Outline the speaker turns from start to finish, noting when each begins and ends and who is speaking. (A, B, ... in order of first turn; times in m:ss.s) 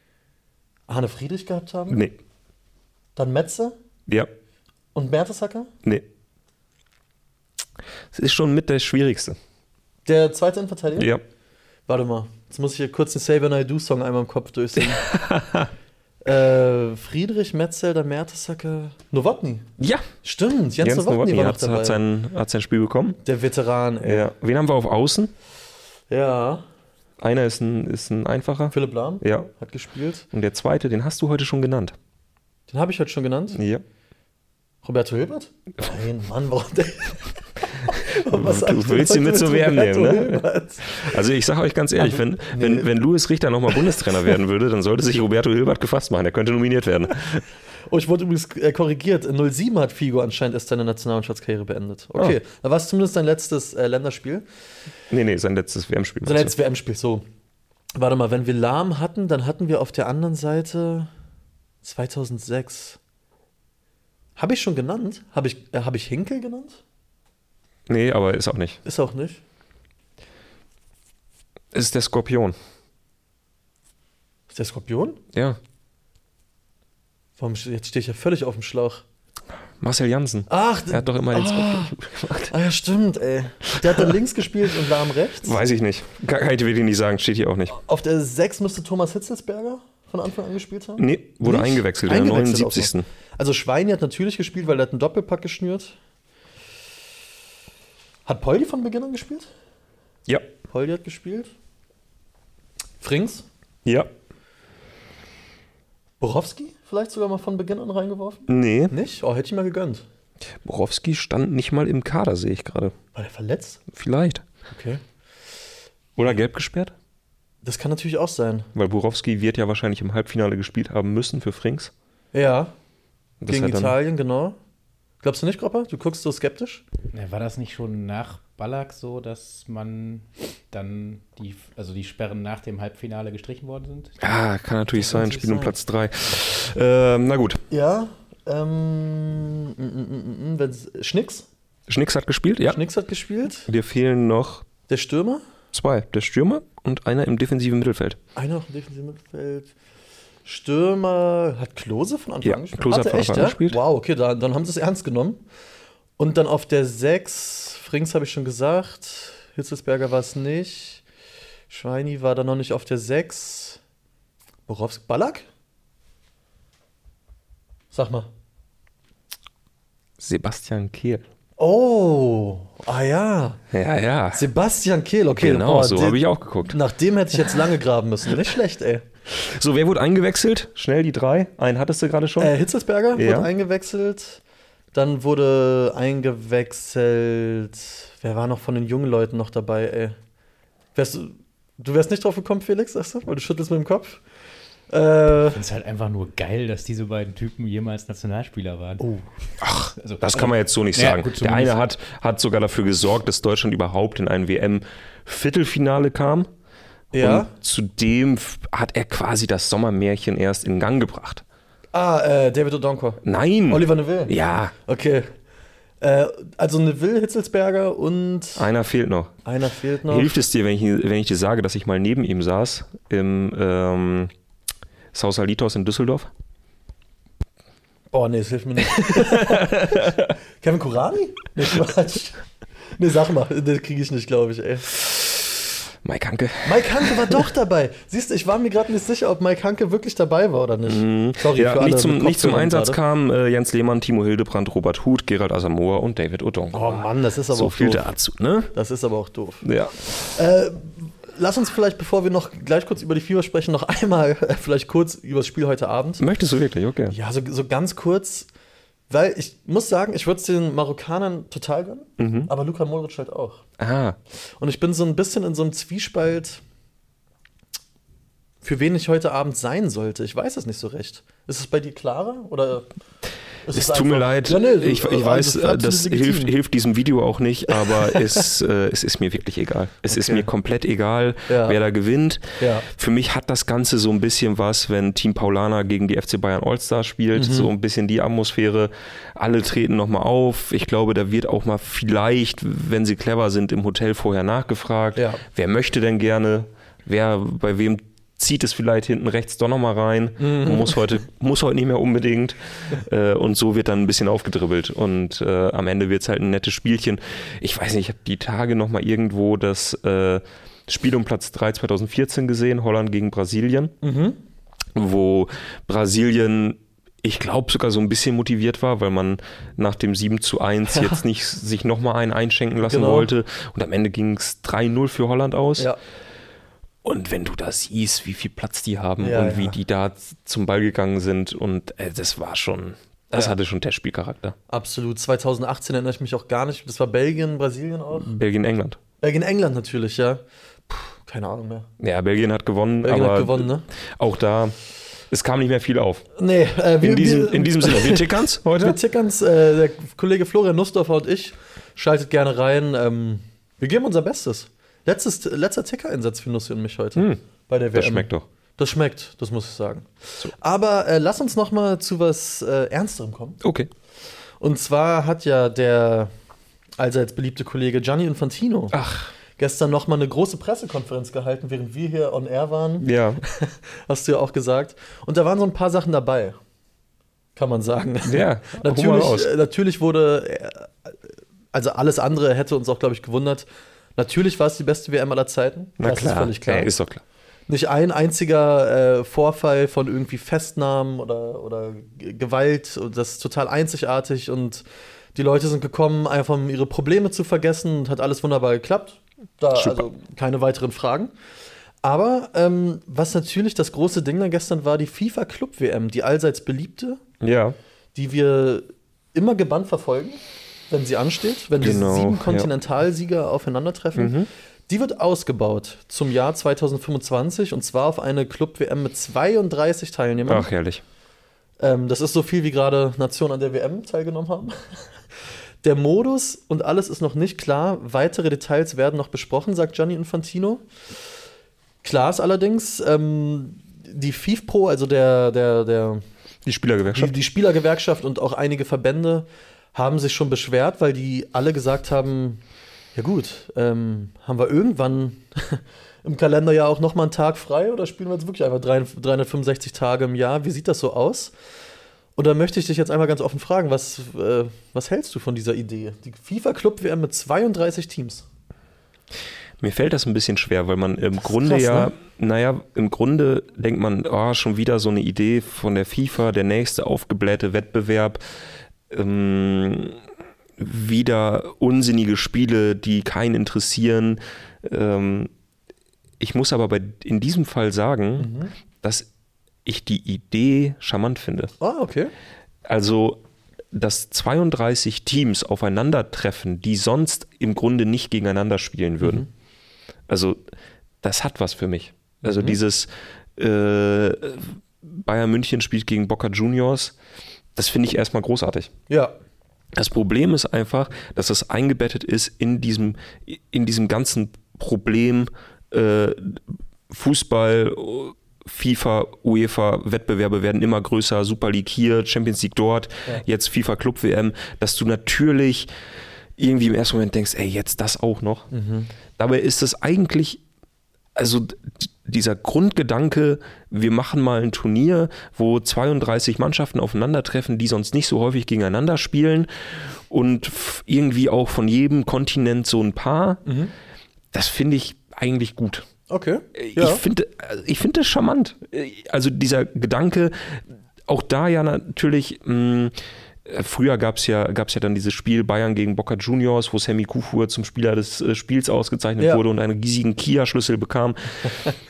0:00.9-0:02.0 A
0:01.9-0:02.2 B
0:03.2-0:03.8 A
0:04.9-0:05.7 A
0:08.1-0:09.4 B
0:10.0-0:11.1 A
0:11.0-0:11.2 B
0:11.9-0:15.1 A
0:14.8-0:15.7 B
0:16.2-0:19.6 A
0:19.8-0:20.0 B
0:20.2-0:22.0 A
0:20.8-0:23.2 B
0:23.2-0:24.3 A
0:24.0-0:25.3 B
0:26.1-0:26.6 A
0:27.2-0:29.5 B
0:28.7-0:30.3 A
0:30.3-0:32.0 B
0:32.7-0:33.6 A
0:33.5-0:33.8 B
0:34.8-0:41.2 A
0:38.2-0:47.4 B
0:42.0-0:42.9 A
0:47.9-0:54.4 A
0:55.1-0:56.5 B
0:56.2-0:57.2 A
0:58.0-1:01.1 A
1:01.8-1:03.0 A
1:04.4-1:06.8 A
1:07.9-1:08.8 B
1:08.8-1:09.4 A
1:11.7-1:12.6 B
1:14.5-1:15.2 A
1:15.3-1:15.6 B
1:17.4-1:19.0 A
1:19.8-1:22.5 B
1:20.5-1:21.9 A
1:22.5-1:25.6 A
1:25.4-1:27.8 B
1:27.8-1:36.0 A
1:31.0-1:33.0 B
1:38.2-1:39.5 A
1:40.7-1:41.5 A
1:43.0-1:43.4 A
1:46.2-1:50.0 A
1:48.5-1:48.9 B
1:50.6-1:52.9 B
1:53.1-1:53.8 A
1:53.9-1:54.4 B
1:54.7-1:55.0 A
1:56.2-1:56.9 B
1:57.6-1:58.7 A
1:58.7-2:01.9 B
2:02.3-2:02.7 A
2:03.4-2:04.0 B
2:03.5-2:04.6 A
2:05.2-2:06.8 A
2:07.1-2:14.2 C
2:14.2-2:17.6 B
2:15.0-2:15.7 A
2:17.7-2:21.5 A
2:21.9-2:22.8 B
2:22.6-2:23.7 A
2:23.7-2:24.6 B
2:24.9-2:25.4 A
2:25.7-2:28.2 B
2:28.4-2:29.7 A
2:30.4-2:35.4 A
2:32.4-2:33.8 B
2:36.2-2:41.0 A
2:41.7-2:43.8 A
2:44.7-2:45.5 A
2:47.9-2:48.3 A
2:50.2-2:51.2 B
2:51.6-2:53.6 A
2:53.7-2:54.5 B
2:54.3-2:59.1 A
2:55.4-2:56.8 B
2:59.3-3:02.5 B
3:02.4-3:04.4 A
3:03.1-3:03.5 B
3:04.9-3:10.2 A
3:10.9-3:14.2 A
3:14.9-3:15.6 A
3:15.5-3:19.1 C
3:19.6-3:26.5 B
3:20.0-3:21.7 C
3:27.1-3:27.5 A
3:27.2-3:31.4 B
3:31.9-3:34.4 A
3:33.2-3:34.7 B
3:34.9-3:35.3 A
3:36.0-3:38.7 A
3:38.6-3:39.4 B
3:39.4-3:40.4 A
3:40.1-3:44.3 B
3:45.1-3:46.3 B
3:48.1-3:52.4 A
3:49.0-3:50.2 B
3:52.9-3:54.9 A
3:56.0-3:57.4 B
3:56.6-4:03.0 A
4:00.9-4:08.7 B
4:06.7-4:08.0 A
4:08.7-4:16.2 A
4:09.6-4:10.0 B
4:16.2-4:17.2 B
4:17.1-4:18.5 A
4:19.1-4:23.6 A
4:22.2-4:22.5 B
4:23.8-4:24.2 B
4:24.6-4:26.6 A
4:28.6-4:32.9 A
4:33.6-4:36.5 A
4:33.7-5:13.9 B
4:37.7-4:38.4 A
4:40.1-4:40.5 A
4:41.5-4:41.8 A
4:42.6-4:42.9 A
4:47.3-4:47.7 A
4:55.2-4:55.4 A
5:00.4-5:01.1 A
5:14.0-5:14.4 A
5:14.9-5:25.9 B
5:20.9-5:21.2 A
5:22.8-5:23.3 A
5:27.0-5:34.6 B
5:29.2-5:29.8 A
5:34.7-5:38.3 A
5:38.2-5:39.0 B
5:39.2-5:41.9 A
5:42.0-5:44.7 B
5:43.0-5:43.8 A
5:45.3-5:46.3 B
5:46.4-6:03.6 A
5:47.0-5:49.0 B
5:57.2-5:57.4 B
5:57.9-5:58.4 B
6:03.6-6:03.9 B
6:04.6-6:06.3 A
6:07.0-6:09.0 A
6:08.9-6:09.3 B
6:09.6-6:16.6 A
6:13.0-6:13.4 B
6:17.6-6:21.1 A
6:18.2-6:19.5 B
6:21.7-6:23.6 A
6:24.2-6:26.9 A
6:26.0-6:27.2 B
6:27.7-6:34.8 A
6:35.4-6:41.3 A
6:39.7-6:40.0 B
6:42.0-6:47.2 A
6:47.4-6:47.8 B
6:48.1-6:54.4 A
6:51.8-6:52.7 B
6:54.1-6:54.5 B
6:54.9-7:00.7 A
7:00.4-7:01.0 B
7:01.8-7:04.7 A
7:05.8-7:10.8 A
7:12.0-7:16.2 A
7:16.6-7:17.4 B
7:17.1-7:22.6 A
7:23.1-7:31.5 A
7:32.4-7:38.4 A
7:39.8-7:48.4 B
7:41.5-7:42.1 A
7:49.1-7:50.2 B
7:50.8-7:55.5 B
7:56.4-7:58.5 B
7:58.4-7:58.7 A
7:59.0-7:59.3 B
7:59.8-8:01.7 B
8:01.8-8:02.3 A
8:02.9-8:03.4 B
8:03.9-8:09.4 B
8:09.2-8:09.5 A
8:10.3-8:10.6 B
8:11.2-8:17.1 B
8:12.4-8:12.8 A
8:17.7-8:18.9 B
8:19.9-8:35.9 B
8:36.6-8:38.7 B
8:38.7-8:39.1 A
8:39.4-8:40.6 B
8:41.4-8:53.6 B
8:53.6-8:53.9 A
8:54.5-8:56.1 B
8:56.3-8:57.2 A
8:56.7-9:03.1 B
9:03.6-9:11.7 B